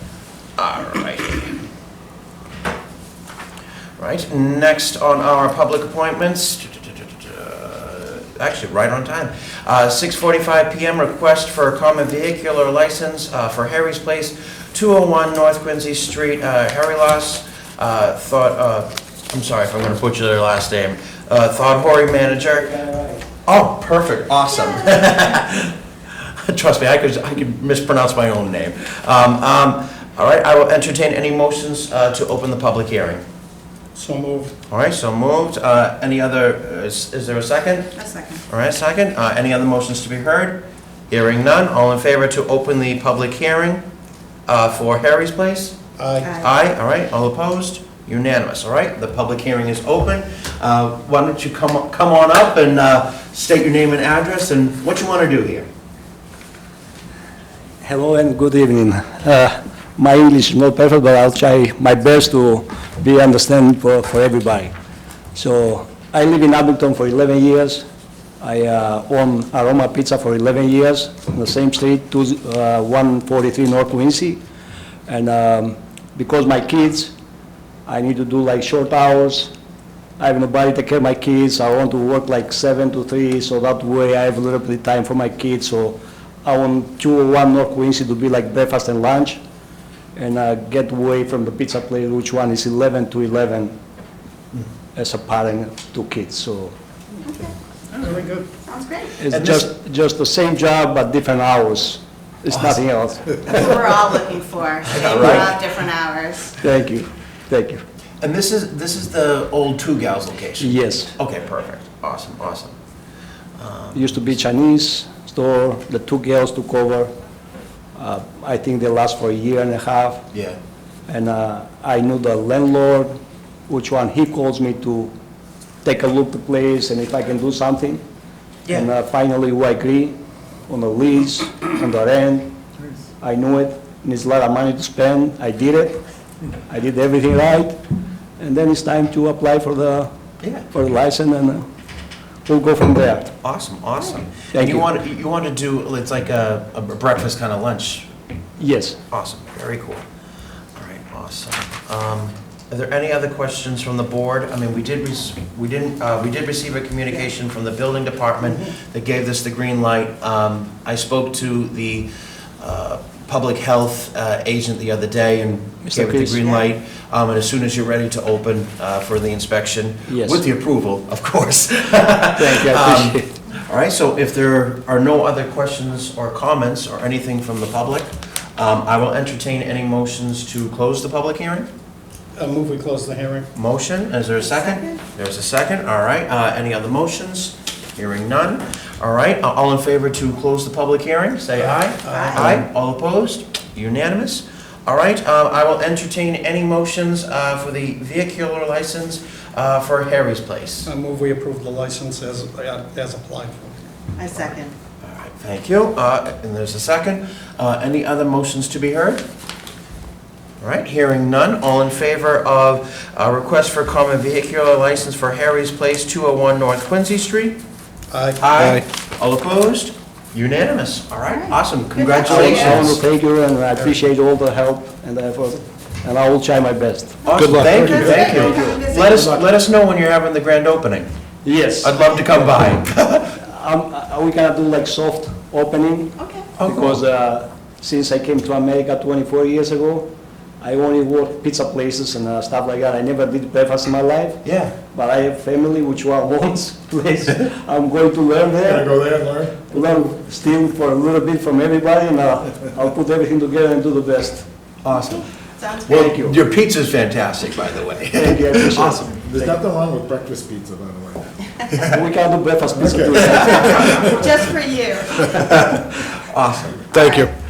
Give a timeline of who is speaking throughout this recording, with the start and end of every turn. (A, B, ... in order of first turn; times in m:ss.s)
0:00.6-0:01.6 A
0:04.0-0:22.7 A
0:22.4-0:23.2 B
0:23.4-0:33.2 A
0:33.9-0:34.5 C
0:34.7-0:37.9 A
0:38.0-0:38.4 D
0:38.5-0:43.8 A
0:44.5-0:45.8 A
0:46.0-0:46.3 C
0:46.4-0:55.7 A
0:57.8-1:04.7 B
1:05.3-1:07.8 B
1:08.4-1:14.4 B
1:15.1-1:17.1 B
1:17.8-1:19.5 B
1:20.2-1:29.4 B
1:30.1-1:33.8 B
1:34.9-1:36.7 B
1:37.2-1:37.5 D
1:38.0-1:38.5 C
1:38.6-1:39.2 D
1:39.2-1:43.8 B
1:39.3-1:39.7 A
1:42.5-1:42.8 A
1:43.5-1:46.5 D
1:44.8-1:45.7 A
1:45.0-1:45.5 B
1:46.6-1:47.8 B
1:48.2-1:52.7 A
1:50.6-1:51.1 B
1:53.6-1:54.4 A
1:53.9-1:57.1 B
1:58.0-2:00.2 B
2:00.3-2:00.6 A
2:01.1-2:03.1 B
2:03.7-2:05.1 B
2:05.8-2:08.0 B
2:08.7-2:10.2 B
2:10.7-2:12.5 B
2:13.2-2:16.0 B
2:16.7-2:17.8 B
2:18.4-2:20.1 B
2:20.7-2:21.6 B
2:22.4-2:23.3 B
2:23.4-2:28.0 A
2:24.5-2:24.9 B
2:28.6-2:29.0 B
2:29.1-2:30.0 A
2:30.8-3:01.7 A
2:45.9-2:46.5 B
2:50.1-2:50.4 B
2:52.3-2:53.3 B
3:02.4-3:03.5 C
3:03.5-3:20.9 A
3:04.5-3:04.9 D
3:11.8-3:12.6 C
3:12.1-3:12.6 D
3:20.8-3:23.7 C
3:24.2-3:24.7 D
3:25.0-3:29.2 A
3:30.6-3:37.6 A
3:38.1-3:38.8 C
3:38.4-3:43.0 A
3:41.3-3:42.8 D
3:42.2-3:47.4 B
3:47.2-3:49.3 D
3:47.2-3:51.1 A
3:47.4-3:49.3 E
3:51.4-3:51.9 B
3:51.8-3:53.4 A
3:53.4-4:09.0 B
3:56.2-3:56.5 D
3:56.6-3:57.0 A
4:04.4-4:04.7 A
4:08.6-4:09.6 E
4:09.6-4:14.5 B
4:14.8-4:15.3 A
4:15.6-4:16.1 D
4:15.8-4:19.5 A
4:15.9-4:16.4 B
4:18.1-4:19.5 B
4:19.2-4:21.9 E
4:21.9-4:24.2 B
4:22.8-4:24.1 E
4:23.9-4:25.3 D
4:25.4-4:27.0 A
4:26.9-4:27.3 D